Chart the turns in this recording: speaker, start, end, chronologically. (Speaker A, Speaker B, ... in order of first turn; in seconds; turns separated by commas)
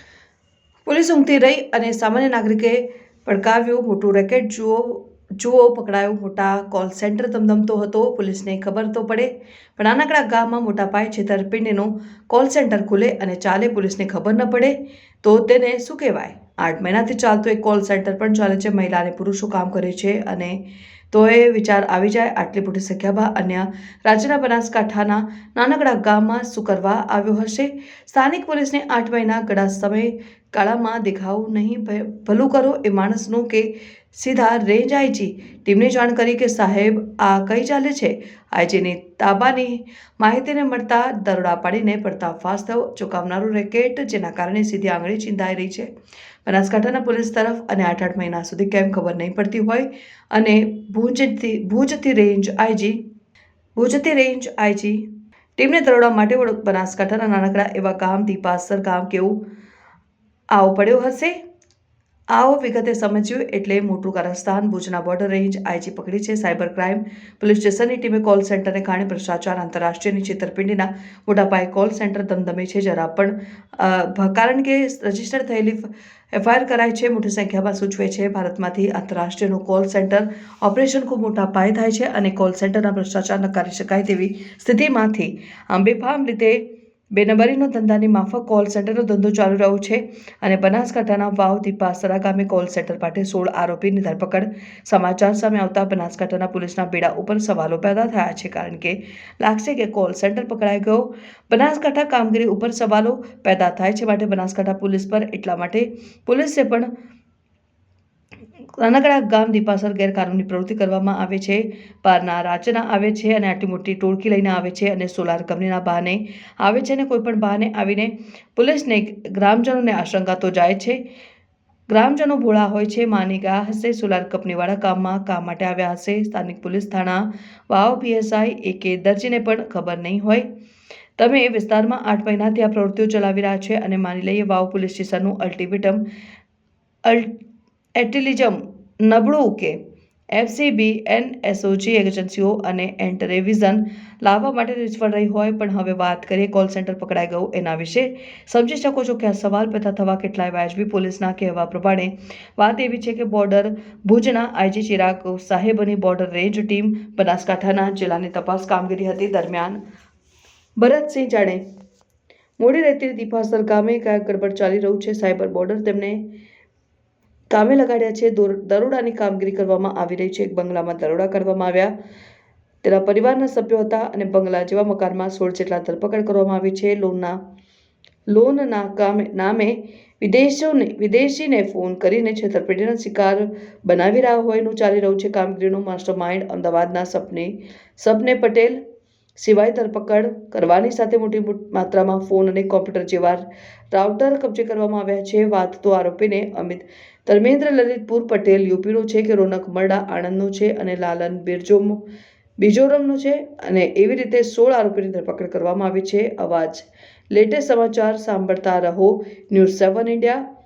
Speaker A: 0.8-20.6, Speaker A: 21.1-45.9, Speaker A: 46.4-53.0, Speaker A: 53.8-55.0, Speaker A: 55.6-59.4, Speaker A: 60.5-61.4, Speaker A: 62.3-86.6, Speaker A: 87.1-106.9, Speaker A: 108.8-121.0, Speaker A: 121.9-130.4, Speaker A: 131.2-136.0, Speaker A: 137.0-137.3, Speaker A: 137.9-139.8, Speaker A: 140.3-159.8, Speaker A: 160.8-161.6, Speaker A: 162.6-166.2, Speaker A: 167.5-171.9, Speaker A: 172.8-177.4, Speaker A: 178.3-188.8, Speaker A: 189.4-202.0, Speaker A: 202.6-210.4